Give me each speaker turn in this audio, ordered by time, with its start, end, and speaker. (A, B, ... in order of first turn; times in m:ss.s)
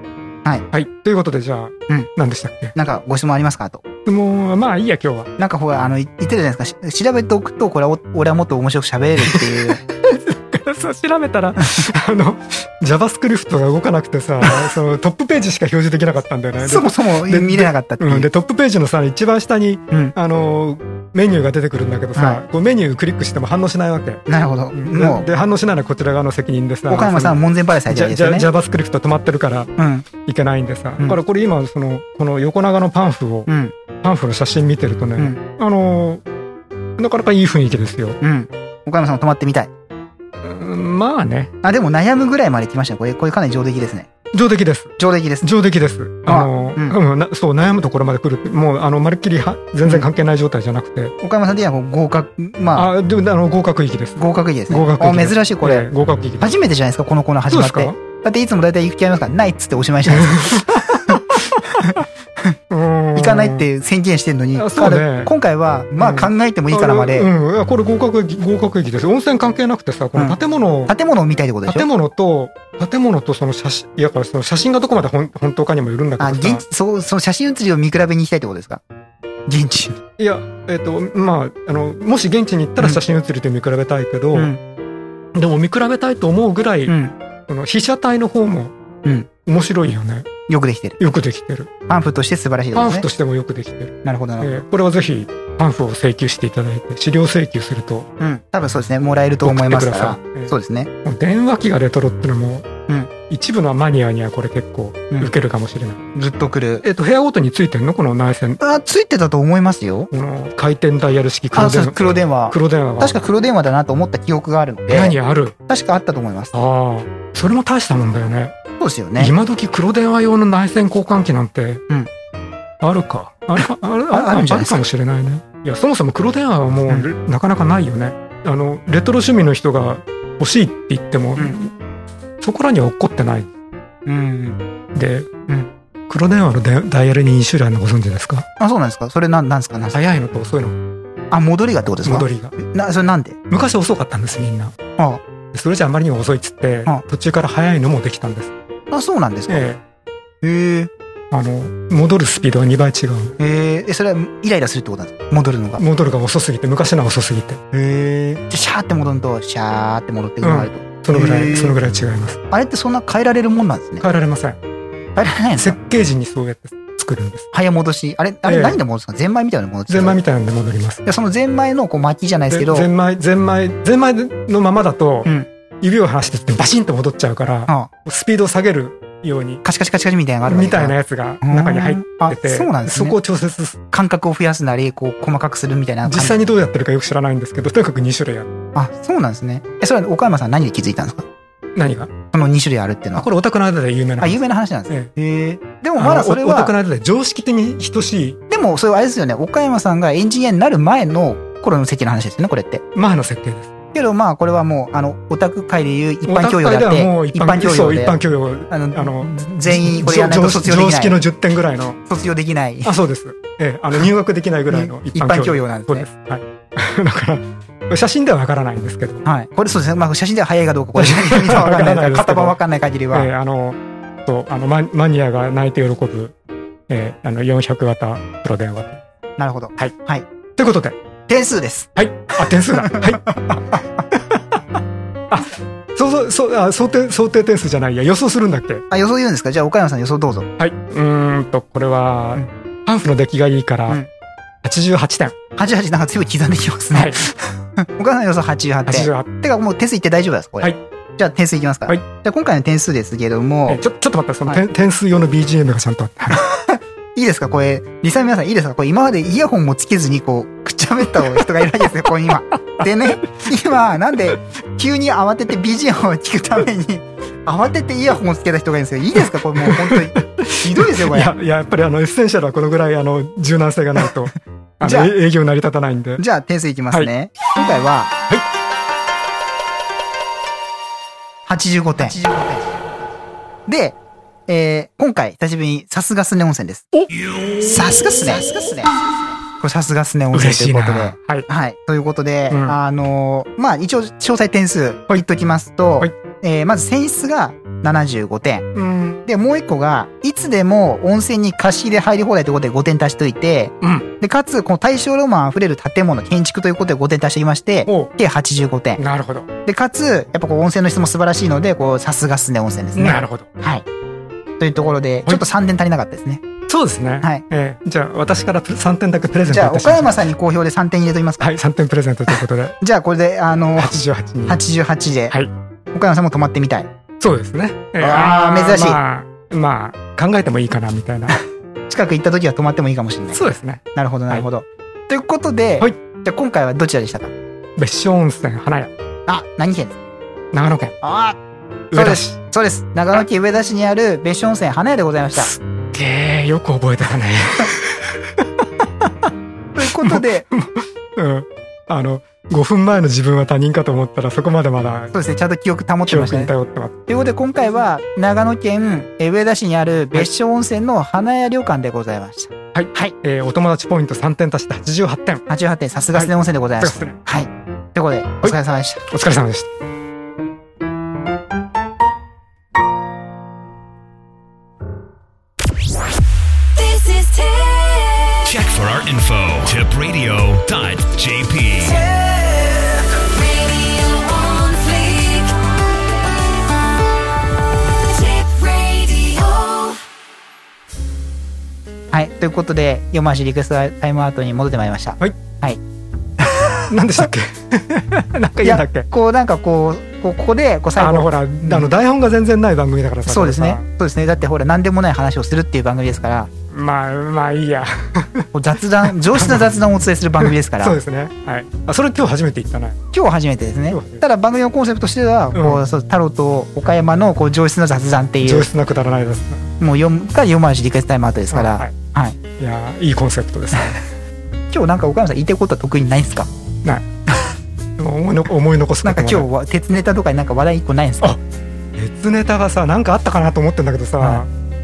0:00.7-0:02.7 A
0:02.7-0:03.8 B
0:04.0-0:05.3 A
0:05.4-0:09.8 B
0:09.2-0:24.2 A
0:11.6-0:11.9 B
0:16.6-0:18.3 B
0:22.2-0:22.4 B
0:24.3-0:25.3 B
0:24.7-0:33.5 A
0:26.9-0:28.5 B
0:29.8-0:30.1 B
0:33.5-0:33.7 B
0:34.0-0:36.2 A
0:37.0-0:38.2 A
0:38.2-0:39.7 B
0:40.4-0:41.5 A
0:41.6-0:44.1 B
0:44.3-0:51.1 A
0:45.0-0:45.5 B
0:46.2-0:47.0 B
0:51.2-0:52.9 B
0:52.7-0:56.5 A
0:54.2-1:02.5 B
0:57.5-0:58.0 A
1:00.0-1:01.6 A
1:02.7-1:03.7 A
1:03.2-1:07.3 B
1:04.5-1:05.3 A
1:06.0-1:10.9 A
1:10.9-1:11.9 B
1:11.6-1:16.6 A
1:16.2-1:18.8 B
1:19.5-1:20.0 B
1:20.2-1:24.5 A
1:24.3-1:24.6 B
1:25.3-1:26.9 A
1:26.9-1:27.1 B
1:27.5-1:28.7 A
1:29.4-1:30.3 A
1:30.5-1:31.0 B
1:31.0-1:31.7 A
1:31.9-1:33.0 B
1:32.7-1:38.1 A
1:34.0-1:34.6 B
1:38.2-1:40.9 B
1:39.4-1:40.5 A
1:41.0-1:42.7 A
1:43.3-1:46.1 A
1:46.1-1:46.8 B
1:46.8-1:48.6 A
1:48.6-1:50.1 B
1:50.1-1:53.2 A
1:51.5-1:55.2 B
1:54.9-1:55.5 A
1:55.7-1:56.5 B
1:56.5-1:58.5 A
1:58.8-1:59.3 B
1:59.2-2:01.8 A
2:02.8-2:11.7 A
2:03.6-2:04.8 B
2:12.4-2:13.5 A
2:14.0-2:14.6 B
2:14.9-2:15.3 A
2:16.1-2:18.4 A
2:18.6-2:20.0 B
2:19.9-2:20.8 A
2:21.3-2:23.4 B
2:22.0-2:22.5 A
2:23.5-2:24.7 A
2:25.5-2:28.5 A
2:28.9-2:29.7 B
2:29.5-2:29.8 A
2:30.4-2:30.9 B
2:31.3-2:33.3 A
2:33.4-2:35.8 B
2:35.8-2:37.7 A
2:37.7-2:41.7 B
2:40.4-2:42.4 A
2:42.5-2:44.0 B
2:44.0-2:44.6 A
2:45.2-2:45.8 B
2:45.6-2:47.5 A
2:47.5-2:50.2 B
2:48.4-2:48.8 A
2:49.9-2:51.0 A
2:51.0-2:52.9 B
2:52.5-2:55.3 A
2:55.8-2:59.6 A
2:59.6-3:03.2 B
3:00.5-3:03.8 A
3:03.9-3:06.4 B
3:06.0-3:08.5 A
3:08.7-3:11.3 B
3:11.8-3:12.1 A
3:12.3-3:13.2 B
3:13.1-3:15.1 A
3:14.2-3:16.7 B
3:16.0-3:18.4 A
3:18.5-3:22.8 B
3:22.9-3:23.7 A
3:23.9-3:28.2 B
3:26.2-3:32.0 A
3:28.7-3:31.2 B
3:32.0-3:32.9 B
3:32.8-3:39.2 A
3:34.7-3:36.1 B
3:39.2-3:43.3 B
3:40.9-3:42.6 A
3:43.1-3:46.3 A
3:46.9-3:49.0 A
3:49.4-3:50.2 B
3:50.6-3:51.0 A
3:51.3-3:54.0 B
3:52.0-3:53.3 A
3:54.1-3:54.6 A
3:55.3-3:58.8 A
3:58.9-4:00.5 B
4:00.6-4:04.0 A
4:04.6-4:05.3 A
4:05.6-4:13.8 B
4:06.9-4:07.2 A
4:08.8-4:09.3 A
4:13.7-4:16.4 A
4:16.3-4:31.3 B
4:29.2-4:36.2 A
4:34.8-4:35.1 B
4:36.2-4:38.1 B
4:41.5-4:42.9 B
4:43.7-4:46.9 B
4:46.9-4:48.1 A
4:47.6-4:58.7 B
4:50.3-4:51.5 A
4:52.5-4:52.8 A
4:58.7-4:59.2 A
4:59.2-5:09.0 B
5:07.8-5:08.1 A
5:09.0-5:09.5 A
5:09.6-5:13.8 B
5:13.0-5:13.5 A
5:14.6-5:16.4 B
5:16.7-5:20.2 A
5:19.5-5:21.5 B
5:21.4-5:22.8 A
5:22.8-5:24.0 B
5:23.8-5:24.6 A
5:24.5-5:25.3 B
5:25.9-5:26.9 B
5:27.2-5:31.4 A
5:28.0-5:29.0 B
5:31.9-5:33.4 B
5:33.3-5:34.5 A
5:33.9-5:37.3 B
5:37.8-5:38.9 A
5:39.3-5:40.0 B
5:40.5-5:40.9 A
5:41.0-5:41.4 B
5:41.9-5:42.4 A
5:41.9-5:45.5 B
5:45.4-5:48.7 A
5:49.7-5:50.5 B
5:49.9-5:55.1 A
5:55.1-5:56.5 B
5:56.0-5:57.0 A
5:57.1-6:03.1 B
6:02.7-6:05.4 A
6:05.5-6:09.0 B
6:06.1-6:07.2 A
6:09.1-6:09.7 A
6:16.7-6:18.6 C
6:18.4-6:22.0 D
6:21.8-6:26.9 C
6:27.7-6:30.0 C
6:32.1-6:35.8 B
6:36.4-6:36.9 B
6:36.9-6:39.1 A
6:38.6-6:41.9 B
6:41.0-6:43.8 A
6:43.2-6:46.5 B
6:46.7-6:48.5 A
6:48.5-6:51.0 B
6:49.0-6:49.7 A
6:50.4-6:53.0 A
6:53.1-6:58.7 B
6:53.9-6:54.2 A
6:55.5-6:55.8 A
6:58.4-6:59.7 A
6:59.8-7:02.4 B
7:01.5-7:01.9 A
7:02.6-7:04.0 A
7:04.7-7:06.5 B
7:08.0-7:09.5 A
7:09.0-7:11.4 B
7:12.0-7:14.5 A